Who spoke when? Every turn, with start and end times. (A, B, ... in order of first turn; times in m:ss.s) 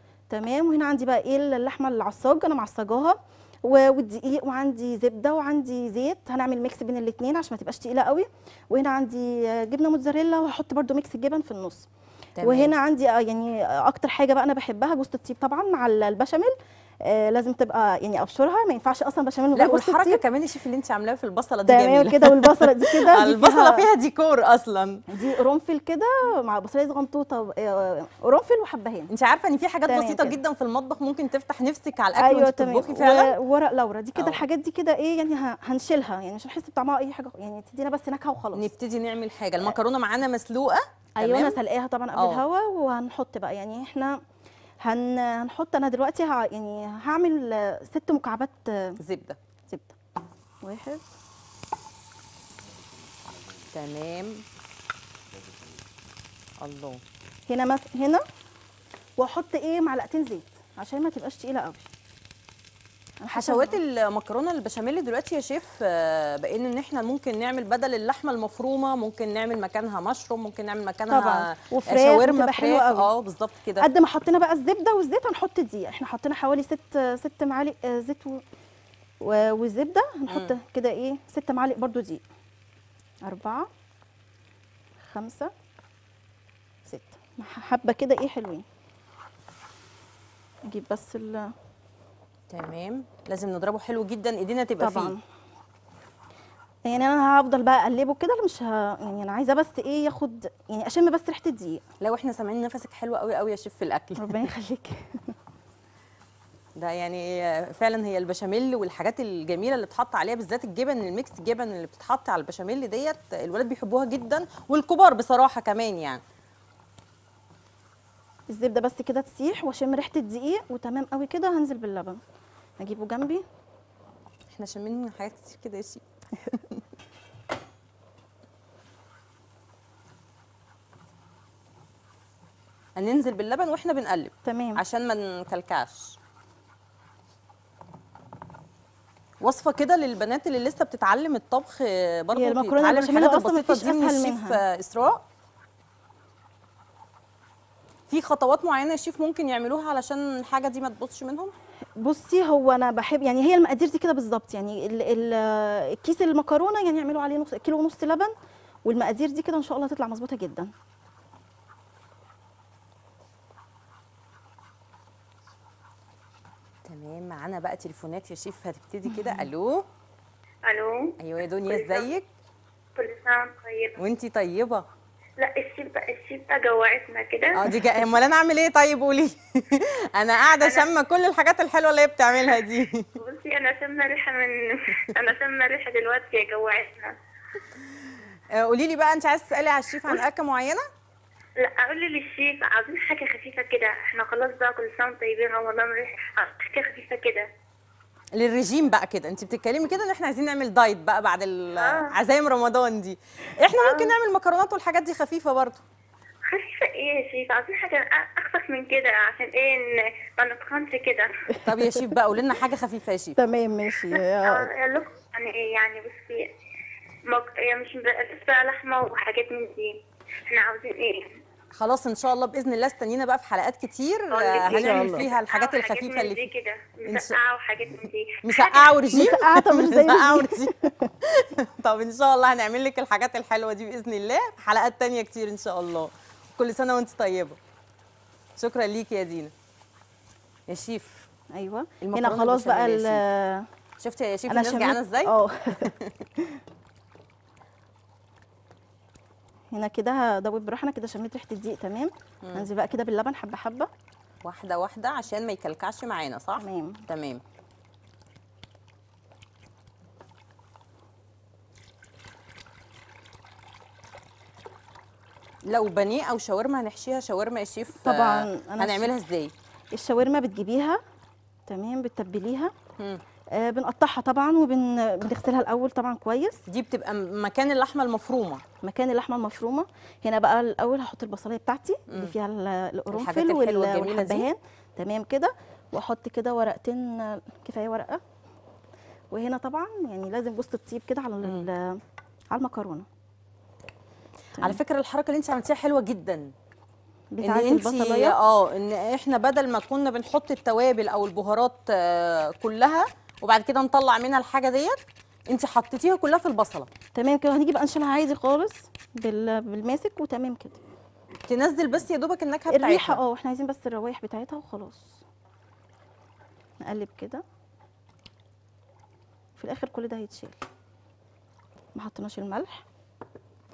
0:00.3-0:11.9 A
0:12.4-0:12.7 B
0:12.4-0:20.2 A
0:19.5-0:25.0 B
0:21.7-0:23.9 A
0:25.1-0:29.1 A
0:29.1-0:33.3 B
0:29.8-0:30.4 A
0:32.2-0:38.7 A
0:34.2-0:34.4 B
0:38.5-0:41.6 B
0:41.2-0:44.2 A
0:42.1-0:42.4 B
0:44.8-0:49.0 A
0:49.0-0:49.4 B
0:49.7-0:50.0 A
0:50.6-0:51.0 A
0:53.7-0:54.4 B
0:56.6-0:57.0 B
0:57.5-0:58.2 A
0:59.2-1:01.9 A
1:03.2-1:03.8 A
1:03.3-1:13.9 B
1:11.1-1:13.1 A
1:13.8-1:18.4 A
1:19.2-1:22.2 A
1:20.3-1:20.6 B
1:23.2-1:23.7 A
1:25.0-1:25.5 A
1:26.8-1:28.6 A
1:30.7-1:31.5 A
1:32.5-1:35.1 B
1:34.8-1:35.2 A
1:36.9-1:41.8 A
1:42.0-1:44.5 B
1:44.2-1:45.3 A
1:46.8-1:56.2 B
1:58.5-2:02.2 A
2:02.8-2:03.4 A
2:04.5-2:06.0 B
2:13.0-2:16.2 B
2:14.4-2:14.8 A
2:19.4-2:25.2 B
2:22.3-2:24.6 A
2:28.1-2:31.5 B
2:32.0-2:38.3 A
2:38.8-2:40.7 A
2:46.9-2:49.8 B
2:49.1-2:49.5 A
2:50.6-2:51.1 C
2:51.2-2:52.3 B
2:51.7-2:52.1 C
2:53.0-2:54.0 C
2:54.0-2:54.8 B
2:55.4-2:57.6 C
2:57.6-3:03.1 B
3:00.6-3:00.9 C
3:03.2-3:07.2 C
3:08.5-3:10.8 B
3:11.6-3:17.5 C
3:18.3-3:25.8 B
3:21.8-3:22.2 C
3:23.8-3:24.1 C
3:26.5-3:31.3 C
3:31.6-3:33.4 B
3:33.4-3:34.7 A
3:34.1-3:36.5 C
3:37.3-3:41.4 C
3:41.8-3:46.5 B
3:44.3-3:49.3 C
3:44.6-3:45.3 A
3:47.1-3:47.4 B
3:48.4-3:50.7 B
3:49.1-3:51.1 A
3:51.2-3:57.6 B
3:58.6-3:59.5 B
4:00.7-4:01.3 B
4:01.5-4:03.7 A
4:02.0-4:03.2 B
4:04.0-4:06.1 B
4:04.5-4:05.9 A
4:09.7-4:13.9 A
4:14.4-4:17.4 B
4:16.6-4:17.0 A
4:25.7-4:29.5 B
4:28.0-4:29.1 A
4:29.9-4:31.0 A
4:31.7-4:32.7 A
4:33.5-4:36.6 A
4:36.7-4:38.6 B
4:38.8-4:48.2 A
4:42.1-4:42.4 B
4:43.1-4:44.5 B
4:49.3-4:52.0 A
4:52.5-4:53.1 A
4:54.6-4:56.5 B
4:57.3-4:58.4 A
4:57.4-5:05.0 B
5:05.5-5:06.9 B
5:07.2-5:10.8 A
5:11.5-5:13.2 B
5:12.7-5:15.2 A
5:16.8-5:17.4 A
5:19.6-5:20.6 A
5:22.0-5:22.8 A